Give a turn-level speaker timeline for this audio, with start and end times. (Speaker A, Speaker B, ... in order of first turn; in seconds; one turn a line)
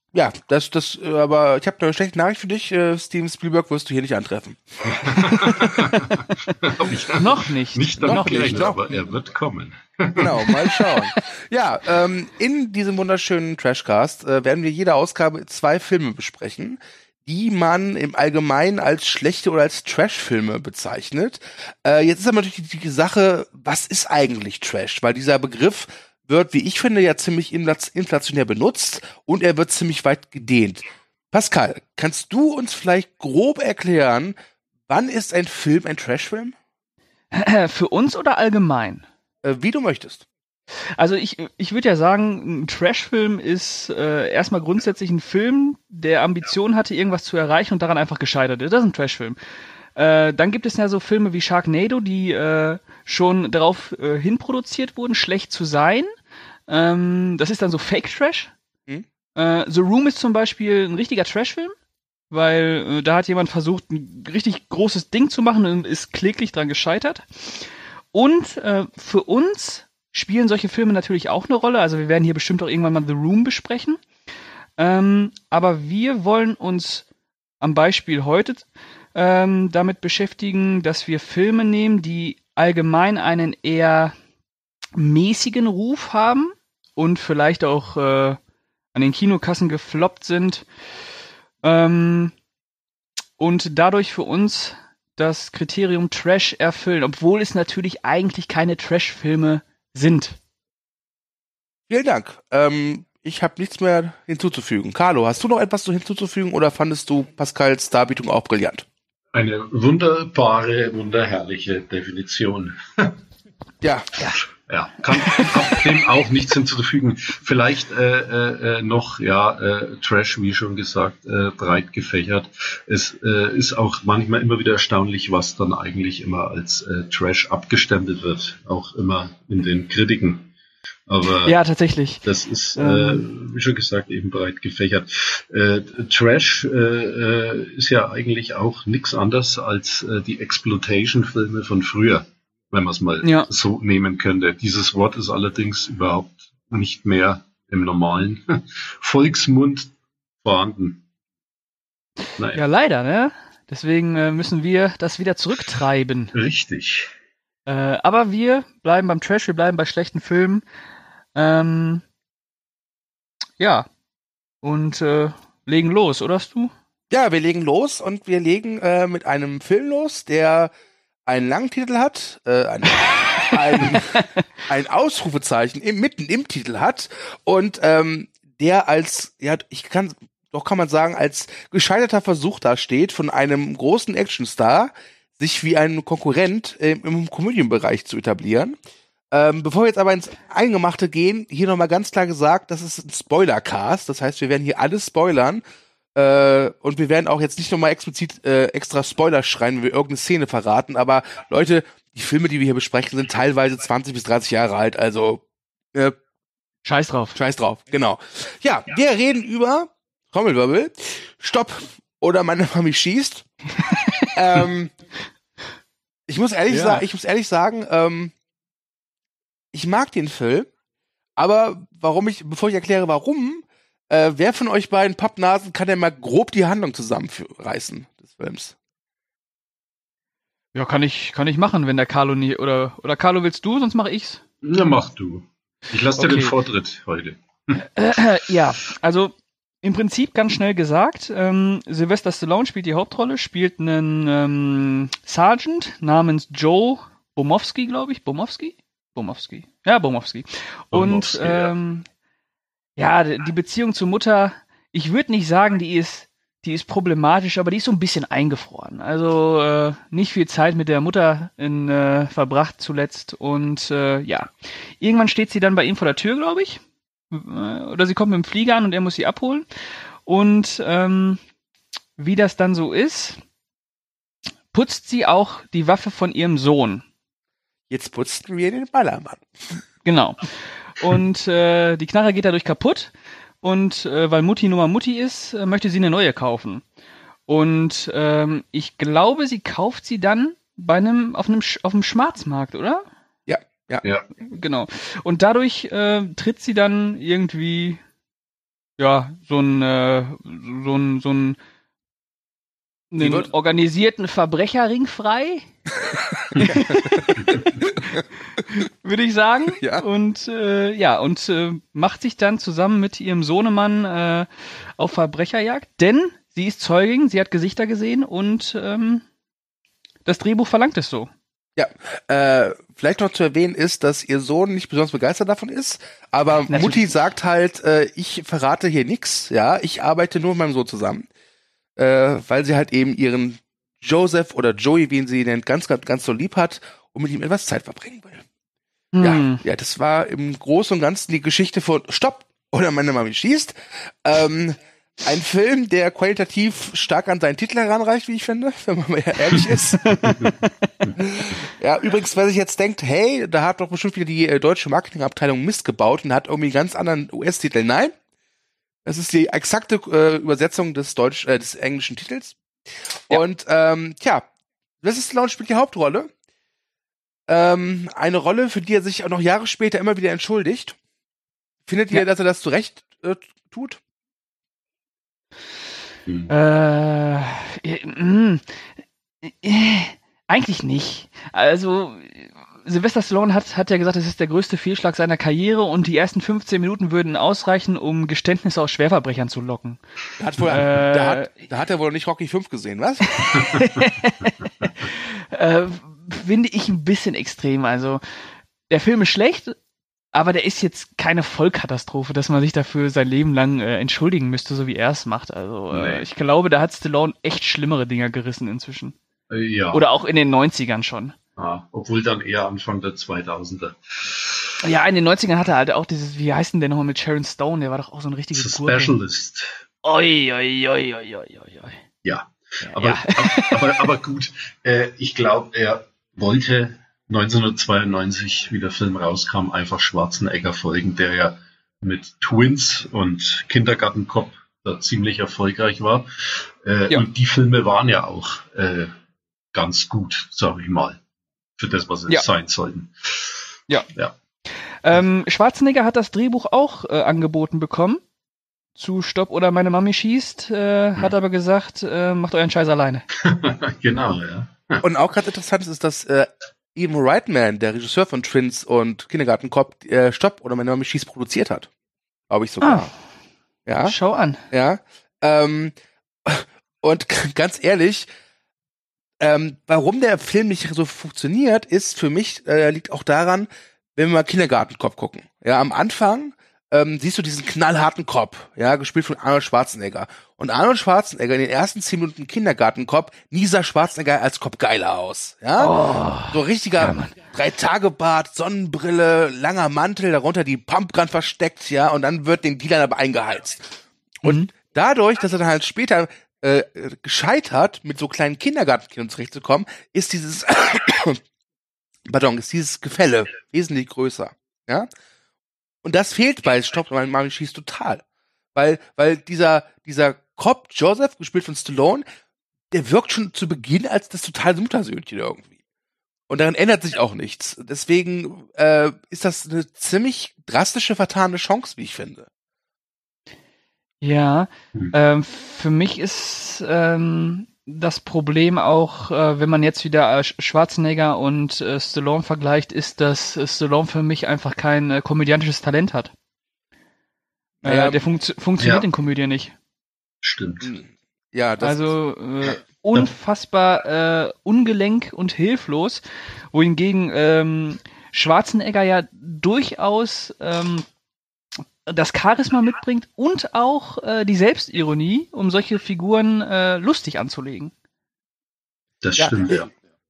Speaker A: 0.1-6.2
Speaker B: 4.8-10.7
Speaker C: 7.2-8.8
Speaker A: 8.1-8.8
Speaker A: 10.2-34.4
Speaker A: 34.9-36.5
Speaker C: 37.3-39.0
Speaker A: 39.4-40.2
Speaker C: 41.0-49.4
Speaker C: 50.0-56.1
Speaker C: 56.7-58.5
Speaker C: 59.3-61.7
Speaker C: 62.3-74.0
Speaker C: 74.8-77.0
Speaker C: 77.6-84.1
Speaker C: 85.0-88.4
Speaker C: 88.9-90.7
Speaker C: 91.6-92.3
Speaker C: 93.4-100.4
Speaker A: 101.9-108.8
Speaker B: 109.3-113.2
Speaker A: 113.8-114.3
Speaker B: 114.7-130.5
Speaker B: 131.1-131.6
Speaker C: 131.4-132.2
Speaker B: 132.2-149.9
Speaker C: 132.8-133.2
Speaker C: 143.2-143.5
Speaker B: 150.4-151.0
Speaker B: 152.4-152.6
Speaker C: 152.5-156.3
Speaker B: 156.3-157.1
Speaker C: 157.7-160.6
Speaker C: 161.3-162.0
Speaker C: 163.6-163.9
Speaker C: 164.6-166.7
Speaker A: 167.1-170.7
Speaker A: 171.2-188.8
Speaker C: 173.9-174.2
Speaker A: 189.3-195.6
Speaker A: 196.1-205.4
Speaker C: 206.8-207.4
Speaker A: 207.3-213.4
Speaker A: 214.3-214.9
Speaker A: 216.3-218.3
Speaker C: 216.7-217.0
Speaker A: 219.7-220.7
Speaker A: 221.4-228.7
Speaker C: 230.7-234.4
Speaker B: 234.6-237.8
Speaker C: 236.2-236.5
Speaker C: 237.8-252.0
Speaker B: 250.9-251.7
Speaker C: 253.0-266.8
Speaker C: 267.3-269.7
Speaker C: 270.2-271.4
Speaker C: 272.2-273.4
Speaker C: 274.7-277.0
Speaker A: 277.9-279.8
Speaker C: 280.0-280.4
Speaker C: 281.0-286.8
Speaker C: 287.5-293.0
Speaker A: 293.5-294.0
Speaker C: 294.4-298.0
Speaker C: 299.0-301.6
Speaker C: 303.1-305.6
Speaker A: 303.2-303.5
Speaker A: 306.0-308.2
Speaker C: 306.6-314.5
Speaker A: 309.8-310.0
Speaker C: 315.0-319.2
Speaker C: 320.2-321.3
Speaker A: 321.8-331.3
Speaker C: 326.7-327.1
Speaker A: 332.0-338.4
Speaker C: 339.1-339.6
Speaker A: 339.2-350.3
Speaker C: 350.1-350.9
Speaker A: 351.1-358.1
Speaker A: 359.0-362.6
Speaker A: 363.3-364.4
Speaker A: 365.0-366.3
Speaker A: 367.5-371.0
Speaker A: 371.9-374.0
Speaker C: 376.5-378.6
Speaker C: 379.4-390.0
Speaker A: 390.4-393.5
Speaker C: 390.6-391.5
Speaker C: 393.3-399.8
Speaker C: 400.3-409.1
Speaker B: 405.9-406.2
Speaker B: 409.5-410.0
Speaker C: 409.9-411.3
Speaker B: 411.6-414.8
Speaker C: 414.8-419.1
Speaker B: 418.6-419.8
Speaker C: 420.0-422.0
Speaker B: 422.2-439.1
Speaker C: 422.8-423.8
Speaker B: 439.7-441.2
Speaker B: 441.8-443.6
Speaker C: 445.0-448.2
Speaker C: 448.9-453.2
Speaker B: 453.4-455.0
Speaker A: 455.0-461.9
Speaker A: 462.5-463.1
Speaker C: 462.8-463.1
Speaker A: 463.9-464.1
Speaker C: 464.0-464.6
Speaker A: 464.7-465.9
Speaker A: 466.4-468.3
Speaker A: 469.4-486.0
Speaker C: 485.8-487.3
Speaker A: 486.5-501.4
Speaker C: 494.4-494.7
Speaker A: 502.3-505.1
Speaker A: 506.0-508.2
Speaker A: 508.7-512.2
Speaker A: 512.9-515.7
Speaker A: 516.5-522.5
Speaker C: 524.2-536.3
Speaker A: 537.8-538.2
Speaker C: 537.8-539.7
Speaker B: 538.8-539.1
Speaker B: 540.4-540.9
Speaker A: 540.8-542.1
Speaker C: 541.8-546.2
Speaker C: 546.7-551.1
Speaker C: 552.1-557.9
Speaker B: 559.2-559.9
Speaker A: 559.4-559.9